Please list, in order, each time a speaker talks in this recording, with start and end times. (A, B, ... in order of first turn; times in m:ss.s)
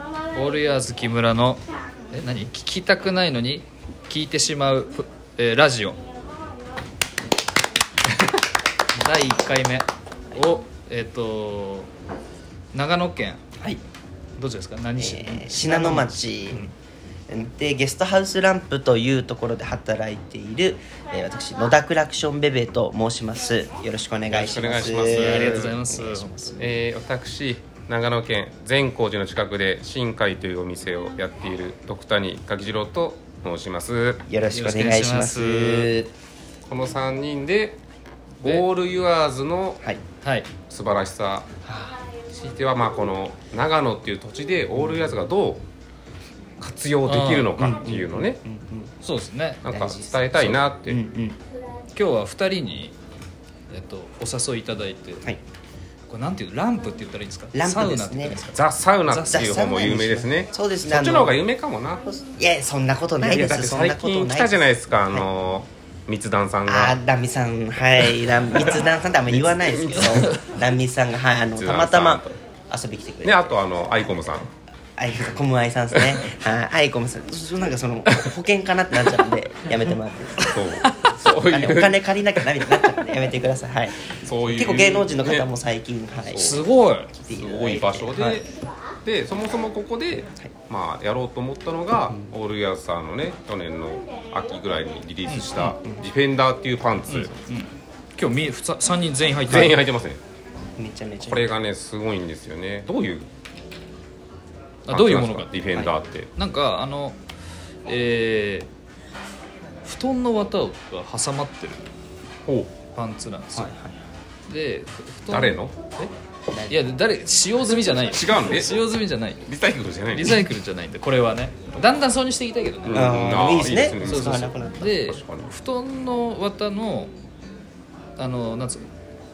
0:00.3-0:01.6 A
0:02.1-0:06.0 A
0:09.0-0:11.9 A
0:12.7-0:13.4 A
0:14.4-0:16.7 A
0:15.0-0:16.7 B
0:17.3-0:26.3 B
0:24.3-0:25.8 C
0:25.1-0:26.7 A
0:26.6-0:34.2 C
0:34.3-0:36.1 B
0:34.5-0:35.9 A
0:36.7-0:37.8 C
0:38.4-0:39.8 C
0:40.2-0:40.5 A
0:40.7-0:41.5 C
0:41.6-0:42.0 B
0:42.3-0:45.6 C
0:44.8-0:45.1 B
0:46.6-0:48.4 C
0:47.0-0:47.5 A
0:47.6-0:48.9 B
0:49.0-0:49.6 A
0:49.6-0:51.0 C
0:49.7-0:51.4 B
0:52.0-0:53.0 A
0:53.7-0:55.3 A
0:56.1-0:59.4 A
0:57.5-0:58.4 B
0:58.5-1:02.1 C
0:59.1-1:01.4 B
1:02.1-1:04.6 B
1:03.2-1:07.0 C
1:06.7-1:13.6 B
1:09.5-1:10.4 C
1:11.6-1:12.4 C
1:13.2-1:14.5 C
1:15.0-1:26.6 B
1:20.5-1:22.3 C
1:24.2-1:25.5 C
1:26.3-1:26.6 C
1:26.4-1:27.1 A
1:27.2-1:28.4 B
1:27.2-1:28.5 C
1:29.0-1:37.3 C
1:35.3-1:35.8 A
1:37.1-1:39.8 A
1:39.5-1:40.2 C
1:40.8-1:41.5 B
1:41.2-1:43.3 C
1:44.9-1:45.5 A
1:44.9-1:46.3 C
1:46.4-1:47.2 A
1:47.9-1:48.7 A
1:49.8-1:51.9 A
1:52.5-1:52.7 C
1:52.9-1:53.7 A
1:53.5-1:54.0 B
1:54.5-1:56.1 A
1:55.3-1:55.7 C
1:56.5-1:56.8 B
1:56.7-1:59.5 A
1:58.0-1:58.9 C
1:59.4-2:00.4 C
2:00.1-2:03.2 A
2:02.8-2:05.5 C
2:02.9-2:05.0 B
2:04.0-2:07.1 A
2:08.2-2:08.9 A